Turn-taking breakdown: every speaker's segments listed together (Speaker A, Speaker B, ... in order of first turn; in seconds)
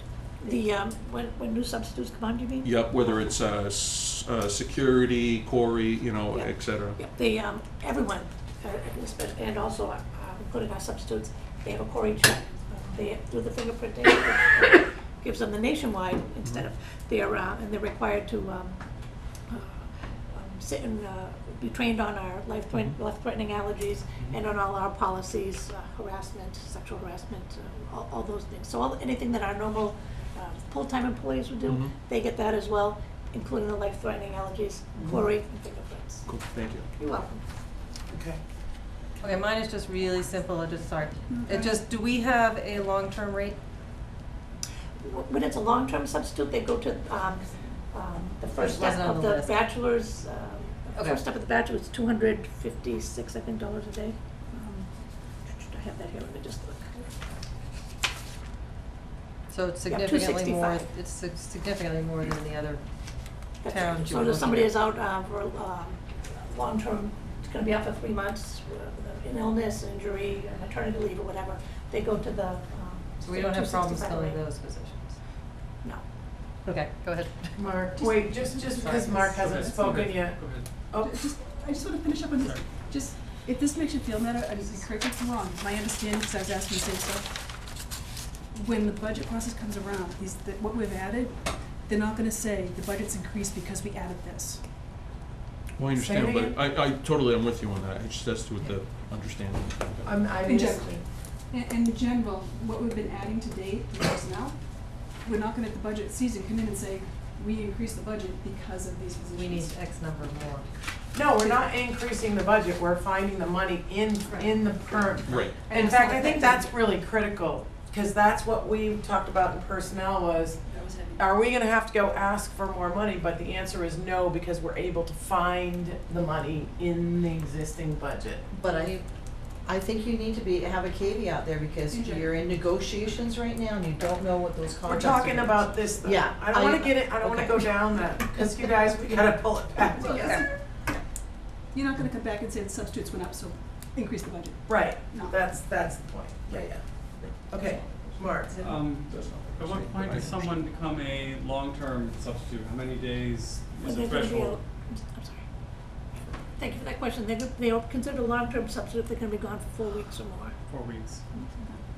Speaker A: 0.4-3.2, 6.3-18.8, 19.5-36.4, 37.0-37.4, 45.0-54.2, 55.5-57.1, 59.9-60.9, 63.6-74.4, 153.8-155.5, 156.6-160.6
Speaker B: 2.6-7.0, 22.7-23.0, 31.7-31.9, 36.3-36.9, 95.8-100.3, 115.3-115.7, 149.0-150.5
Speaker C: 38.1-38.4, 77.6-81.2, 95.9-96.6, 100.0-101.0, 111.1-128.5, 134.9-140.4, 144.7-146.8, 147.5-148.6
Speaker D: 39.2-43.6, 48.6-49.6, 51.0-51.3, 59.5-64.8, 73.2-75.2, 76.6-78.1, 78.6-79.3, 109.3-110.7
Speaker E: 41.3-41.8, 54.5-54.9, 78.4-79.0, 79.6-80.1, 81.0-87.3, 88.5-94.6, 100.4-109.7, 115.7-116.7, 120.7-121.2, 131.9-132.4, 140.0-140.6, 141.7-145.4, 161.3-161.8
Speaker F: 79.3-80.7, 82.4-82.7, 148.6-154.6, 160.7-161.3
Speaker G: 128.5-129.1, 129.6-138.1, 140.0-140.4, 146.5-146.8, 147.4-148.1